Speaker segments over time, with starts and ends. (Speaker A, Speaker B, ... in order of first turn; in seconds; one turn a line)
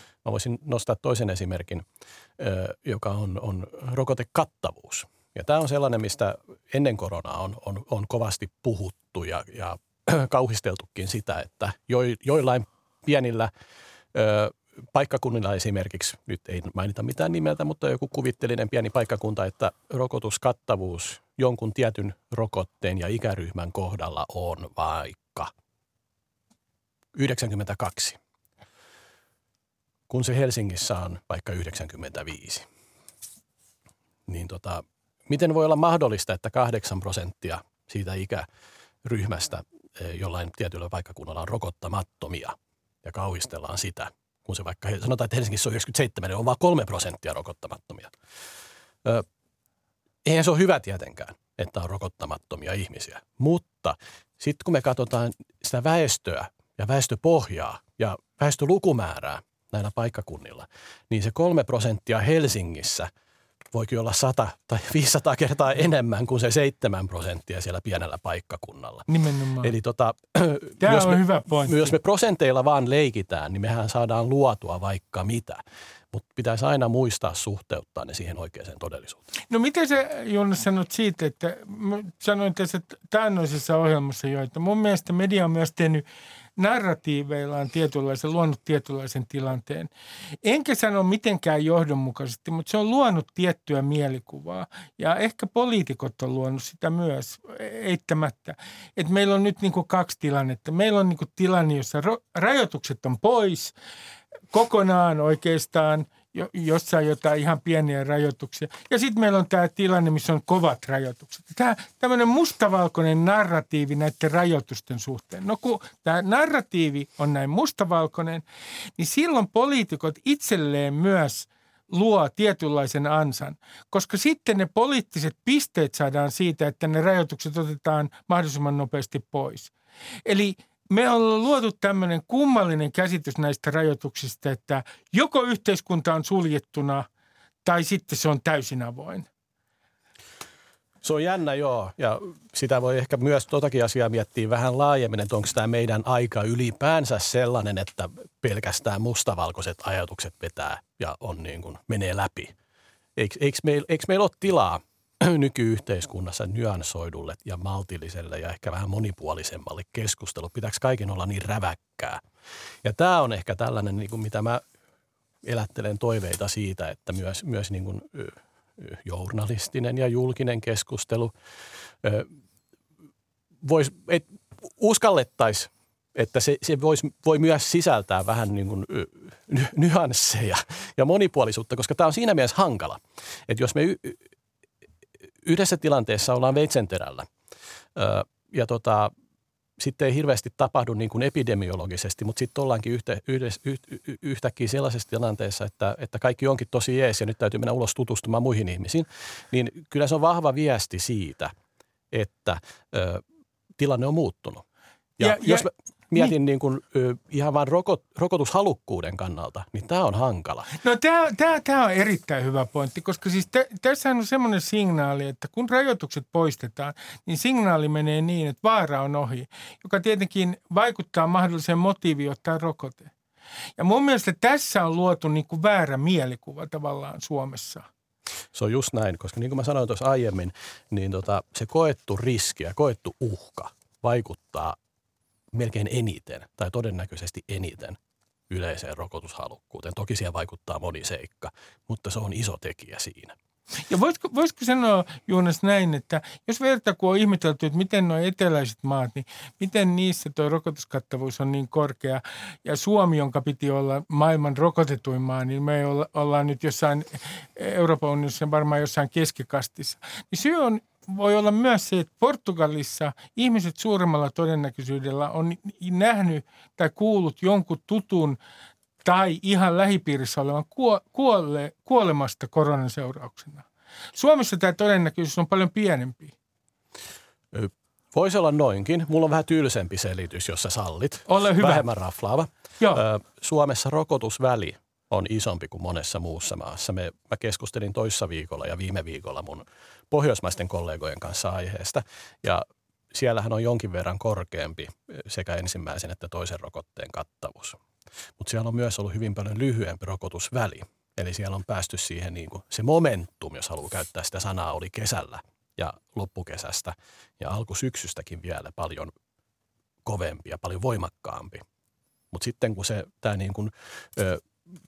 Speaker A: 0.2-1.9
Speaker A: 2.4-13.5
Speaker A: 14.1-25.5
Speaker A: 27.1-28.2
Speaker A: 30.1-32.6
Speaker A: 34.3-38.5
Speaker A: 39.0-48.1
Speaker A: 50.2-63.1
Speaker A: 63.7-69.0
Speaker B: 69.1-69.7
Speaker A: 69.6-75.6
Speaker B: 70.8-72.0
Speaker A: 76.1-79.2
Speaker B: 79.5-86.0
Speaker B: 86.6-89.9
Speaker B: 90.4-103.7
Speaker B: 104.5-118.4
Speaker B: 119.0-129.7
Speaker B: 130.2-137.1
Speaker B: 137.6-139.3
Speaker A: 141.0-152.5
Speaker A: 153.2-162.2
Speaker A: 162.8-164.6
Speaker A: 165.4-171.3
Speaker A: 172.0-172.3
Speaker A: 173.6-184.2
Speaker A: 185.4-187.3
Speaker A: 187.9-189.1
Speaker A: 189.8-201.5
Speaker A: 202.1-203.2
Speaker A: 203.8-204.6
Speaker A: 205.2-210.7
Speaker B: 205.2-206.3
Speaker B: 210.8-223.1
Speaker B: 223.8-227.9
Speaker A: 228.5-234.8
Speaker A: 235.5-238.0
Speaker A: 238.5-243.3
Speaker B: 243.9-268.4
Speaker B: 269.0-276.3
Speaker A: 277.5-297.8
Speaker B: 281.3-281.9
Speaker A: 298.4-309.1
Speaker A: 310.0-311.6
Speaker A: 312.3-314.4